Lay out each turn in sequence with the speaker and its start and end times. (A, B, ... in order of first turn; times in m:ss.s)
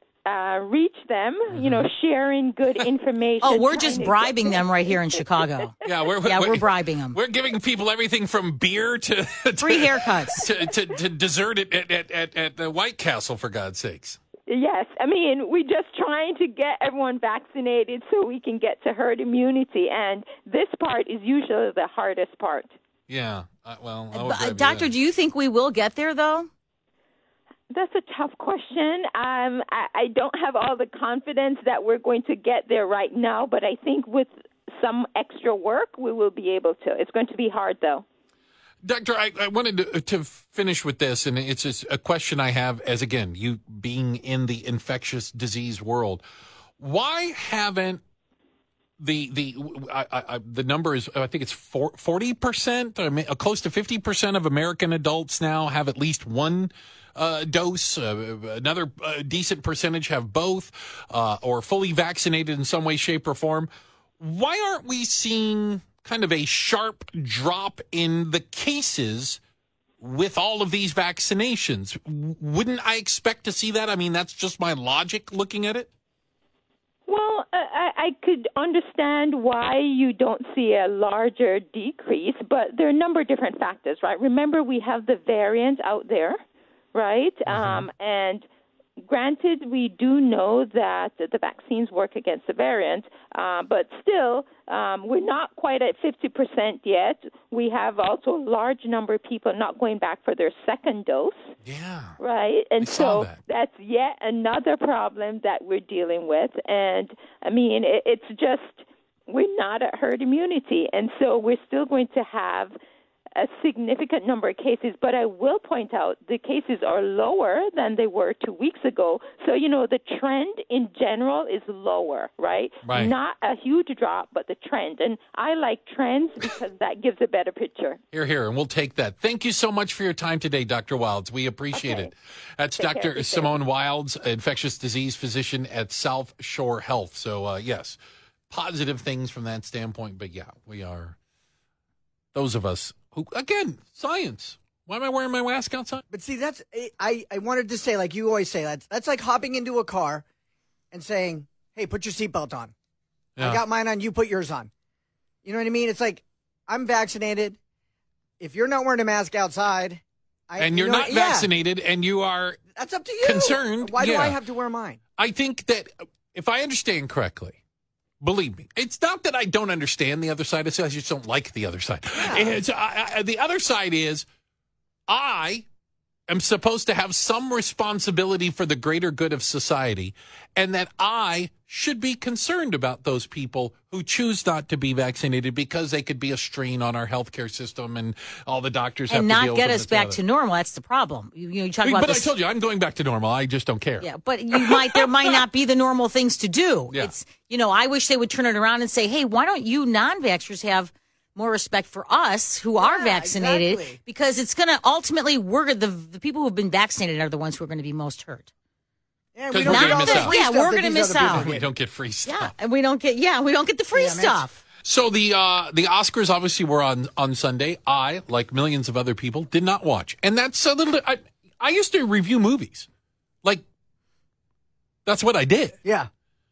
0:00.3-0:04.6 A
0:01.5-0:01.9 B
0:03.4-0:05.7 C
0:05.8-0:14.2 B
0:06.2-0:07.2 C
0:09.6-0:10.5 C
0:14.5-0:22.7 A
0:23.1-0:24.9 B
0:24.1-0:26.5 C
0:27.7-0:38.0 A
0:38.8-0:46.2 B
0:46.8-0:48.0 B
0:49.0-1:03.7 B
1:04.2-1:09.4 B
1:10.0-1:15.9 B
1:17.1-1:26.4 A
1:26.9-1:28.5 A
1:27.5-1:27.9 B
1:29.0-1:41.5 A
1:41.6-1:42.2 B
1:42.2-1:52.8 A
1:42.8-1:43.4 B
1:53.4-2:08.0 A
2:02.8-2:03.1 B
2:08.1-2:18.0 B
2:11.7-2:12.1 A
2:12.8-2:13.6 A
2:18.5-2:21.2 B
2:22.3-2:26.0 B
2:26.1-2:30.2 D
2:30.9-2:32.7 D
2:33.4-2:33.6 B
2:33.4-2:34.7 D
2:35.4-2:37.6 D
2:38.4-2:41.5 D
2:40.6-2:42.6 B
2:42.8-2:45.0 D
2:43.2-2:44.4 B
2:45.2-2:47.6 B
2:48.2-2:54.3 B
2:52.2-2:52.6 D
2:55.1-2:55.6 B
2:56.3-3:10.2 B
3:09.1-3:12.3 C
3:11.8-3:15.4 B
3:14.0-3:28.5 C
3:22.8-3:24.0 D
3:29.4-3:31.7 D
3:29.5-3:30.4 B
3:29.6-3:31.5 C
3:31.2-3:32.5 B
3:32.2-3:34.6 C
3:33.9-3:34.5 D
3:34.8-3:42.9 B
3:45.1-3:45.8 B
3:45.8-3:46.1 D